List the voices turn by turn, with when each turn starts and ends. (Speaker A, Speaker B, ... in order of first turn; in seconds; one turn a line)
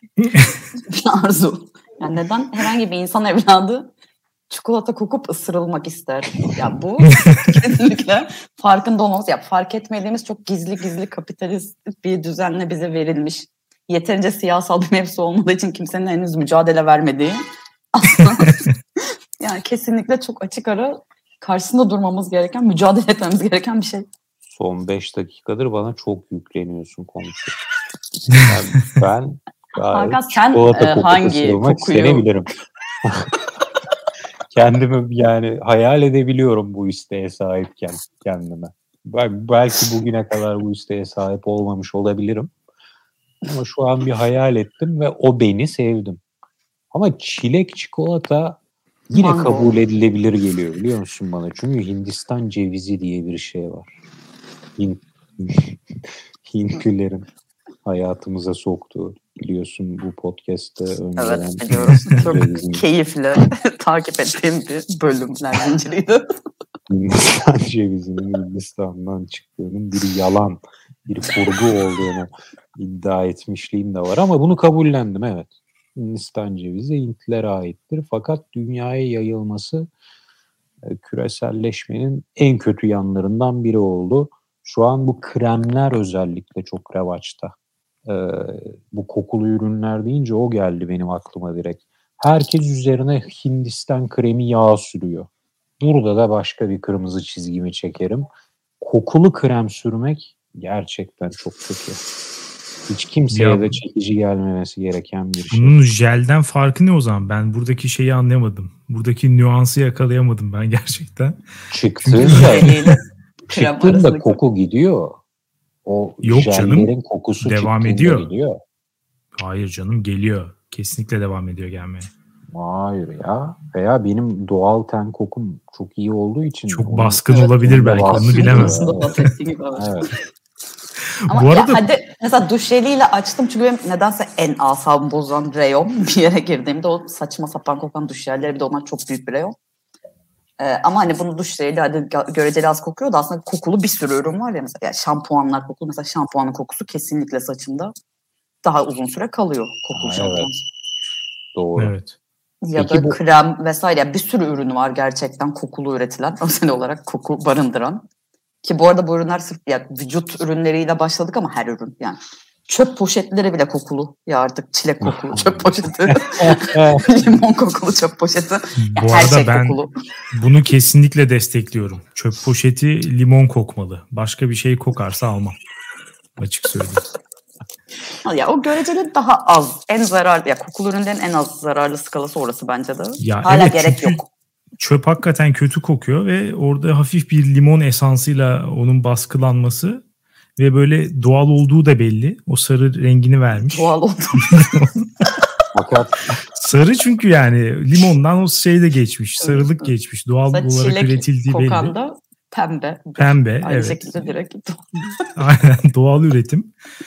Speaker A: 0.2-0.5
Speaker B: 0.9-3.9
Speaker B: 4.5-18.6
Speaker B: 19.4-24.1
Speaker C: 24.4-27.6
Speaker C: 28.3-32.5
Speaker B: 29.9-32.3
Speaker C: 33.0-33.3
Speaker C: 34.5-42.5
Speaker C: 43.4-46.2
Speaker C: 46.9-48.6
Speaker C: 49.1-54.0
Speaker B: 49.1-49.7
Speaker C: 54.8-57.3
Speaker C: 57.9-62.9
Speaker B: 61.2-66.2
Speaker C: 66.9-79.9
Speaker C: 80.8-87.5
Speaker C: 88.1-95.3
Speaker C: 95.8-98.3
Speaker C: 98.8-102.0
Speaker C: 102.9-105.8
Speaker A: 103.3-103.8
Speaker A: 105.5-111.4
Speaker C: 111.7-112.7
Speaker A: 112.0-112.9
Speaker B: 112.2-114.4
Speaker C: 113.5-115.2
Speaker C: 115.8-118.6
Speaker A: 116.2-118.3
Speaker A: 119.4-122.1
Speaker C: 122.5-129.1
Speaker A: 126.7-128.9
Speaker B: 127.3-129.9
Speaker C: 129.8-130.1
Speaker B: 131.3-139.6
Speaker A: 131.3-131.8
Speaker B: 140.6-147.9
Speaker B: 148.6-150.6
Speaker C: 149.9-150.5
Speaker C: 151.5-151.9
Speaker A: 151.8-152.2
Speaker B: 152.6-158.1
Speaker C: 152.8-153.2
Speaker B: 158.6-169.9
Speaker C: 165.0-167.1
Speaker A: 168.8-169.8
Speaker A: 170.3-175.6
Speaker A: 176.4-177.0
Speaker B: 178.2-184.3
Speaker A: 183.2-184.2
Speaker A: 184.8-190.0
Speaker A: 190.6-195.1
Speaker B: 193.6-194.6
Speaker C: 195.7-196.4
Speaker A: 196.6-201.9
Speaker B: 199.4-199.8
Speaker B: 200.5-205.3
Speaker A: 203.2-204.1
Speaker A: 205.3-206.7